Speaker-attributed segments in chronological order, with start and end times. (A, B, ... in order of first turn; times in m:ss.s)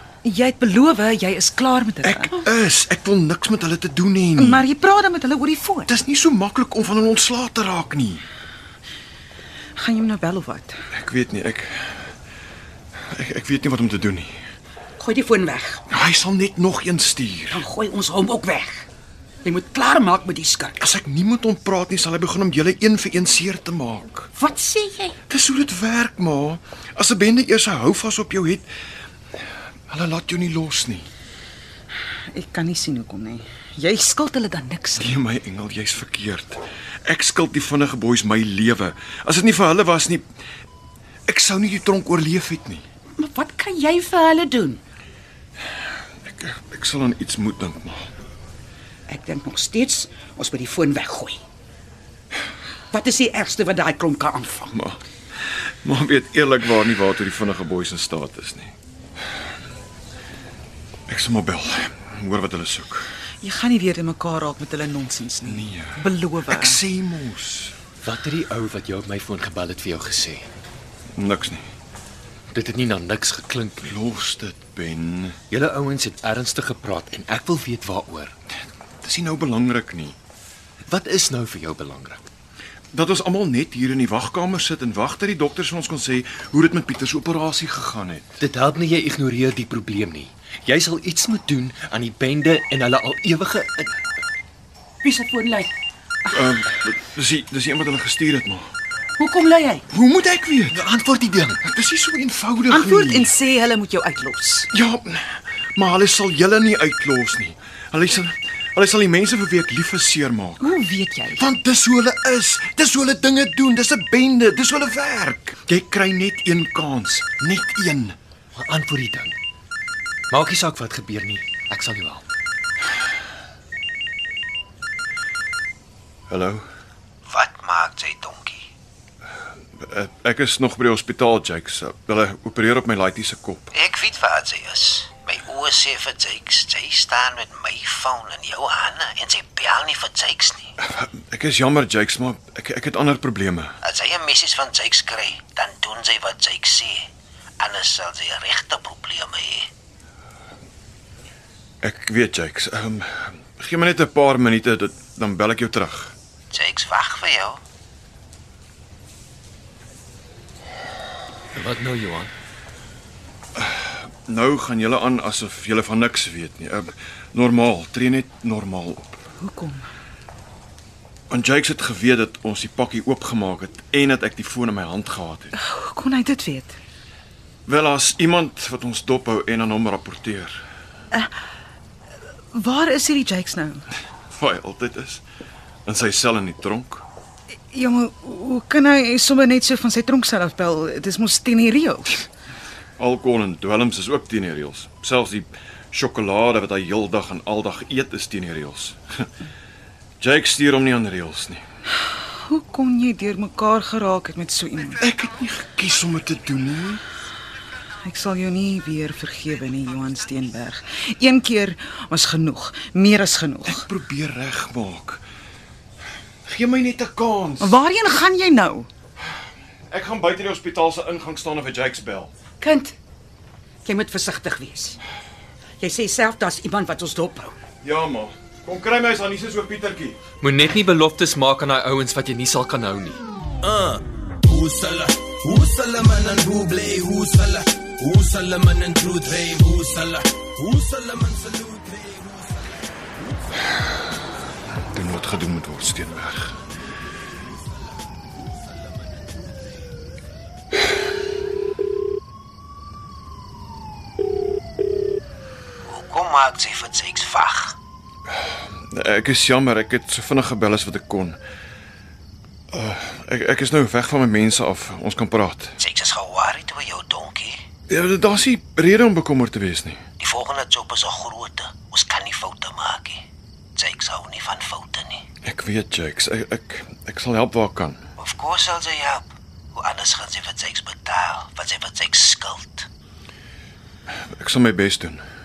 0:00.2-0:02.3 A
0:02.0-0:04.6 B
0:04.4-0:05.9 A
0:05.9-0:08.2 B
0:09.8-0:10.7 A
0:10.9-0:11.9 B
0:13.1-0:14.3 B
0:15.0-0:15.8 C
0:15.9-0:17.7 B
0:17.5-0:18.9 C
0:19.4-0:20.8 C
0:20.8-0:24.3 B
0:24.4-0:25.1 C
0:25.3-0:28.6 B
0:29.9-0:31.1 B
0:32.3-0:35.1 A
0:35.0-0:40.2 B
0:41.3-0:42.8 B
0:43.2-0:44.8 C
0:46.2-0:48.1 B
0:49.1-0:51.4 C
0:52.9-0:54.7 C
0:54.7-0:55.0 B
0:55.8-0:58.8 B
1:01.1-1:03.1 B
1:03.4-1:06.8 A
1:05.4-1:07.8 B
1:08.0-1:10.5 D
1:11.2-1:11.6 B
1:12.5-1:14.0 D
1:13.8-1:15.4 B
1:15.5-1:18.3 D
1:19.0-1:20.2 B
1:20.9-1:22.2 D
1:22.9-1:28.4 B
1:28.4-1:33.9 D
1:35.0-1:35.7 C
1:36.3-1:38.7 B
1:39.2-1:39.8 C
1:39.9-1:40.8 B
1:40.7-1:41.6 D
1:41.6-1:43.3 B
1:42.7-1:44.7 A
1:44.7-1:50.7 B
1:50.6-1:51.5 A
1:51.4-1:58.2 B
1:58.5-1:59.4 D
2:00.3-2:02.2 D
2:06.3-2:06.6 B
2:07.2-2:08.6 E
2:09.8-2:13.7 B
2:13.7-2:20.7 E
2:20.8-2:23.8 B
2:23.8-2:27.1 E
2:27.6-2:29.7 E
2:31.8-2:36.2 B
2:36.5-2:37.6 E
2:41.5-2:42.3 D
2:43.6-2:49.2 B
2:49.4-2:49.8 A
2:51.3-2:55.5 B
2:55.5-2:56.8 A
2:57.7-3:00.6 B
3:02.5-3:03.9 A
3:04.3-3:05.2 B
3:05.8-3:07.0 B
3:07.7-3:12.2 A
3:13.0-3:19.3 B
3:20.2-3:21.6 B
3:22.4-3:25.0 A
3:25.0-3:27.0 B
3:28.0-3:33.8 A
3:33.6-3:35.2 B
3:36.4-3:37.8 B
3:37.6-3:38.9 A
3:39.9-3:42.3 B
3:42.6-3:42.9 C
3:43.8-3:45.0 C
3:45.8-3:47.6 C
3:47.8-3:50.2 B
3:50.4-3:53.2 D
3:53.6-3:53.9 F
3:54.5-4:02.4 F
4:04.9-4:06.6 B
4:15.8-4:17.8 E
4:18.9-4:21.4 B
4:22.7-4:25.8 B
4:25.8-4:27.6 E
4:27.9-4:30.0 B
4:30.2-4:33.2 E
4:33.8-4:35.2 E
4:35.4-4:38.0 B
4:38.2-4:42.9 E
4:44.1-4:45.2 B